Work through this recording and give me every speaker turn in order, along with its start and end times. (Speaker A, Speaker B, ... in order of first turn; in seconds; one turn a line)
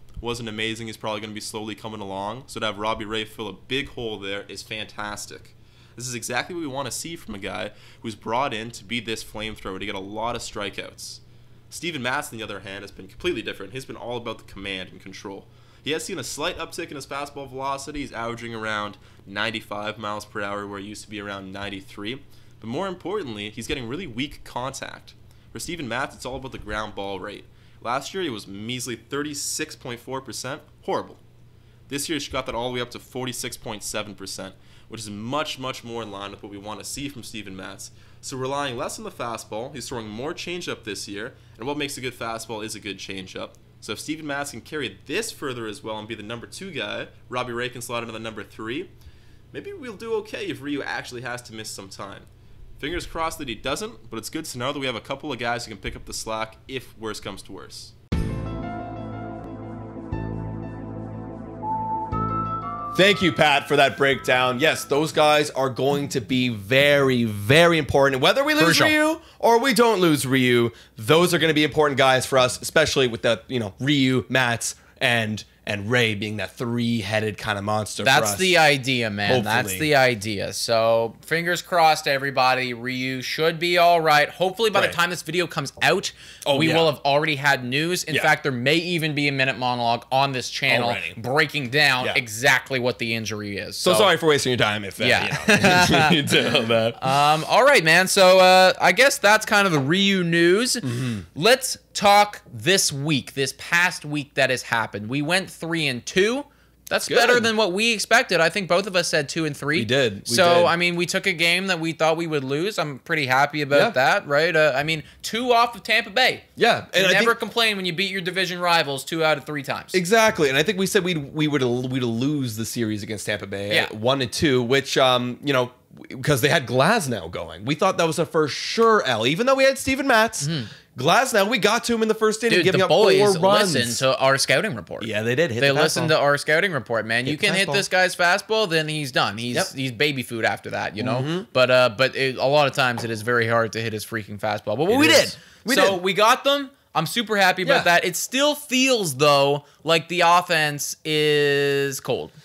Speaker A: 0.2-31.2
Speaker A: 31.9-48.9
Speaker A: 49.5-52.3
Speaker A: 52.8-57.9
Speaker B: 62.9-78.6
Speaker C: 68.6-68.9
Speaker C: 78.0-94.1
Speaker B: 79.2-79.9
Speaker B: 84.7-85.0
Speaker B: 86.4-86.9
Speaker B: 90.7-91.2
Speaker B: 93.8-97.1
Speaker C: 95.0-96.4
Speaker C: 97.0-120.0
Speaker B: 100.8-101.2
Speaker B: 107.0-107.5
Speaker B: 109.7-110.7
Speaker B: 116.6-117.3
Speaker B: 119.9-134.0
Speaker C: 130.4-130.7
Speaker C: 132.5-152.3
Speaker B: 135.0-136.1
Speaker B: 137.2-137.8
Speaker B: 141.0-141.5
Speaker B: 144.9-146.0
Speaker B: 147.6-147.9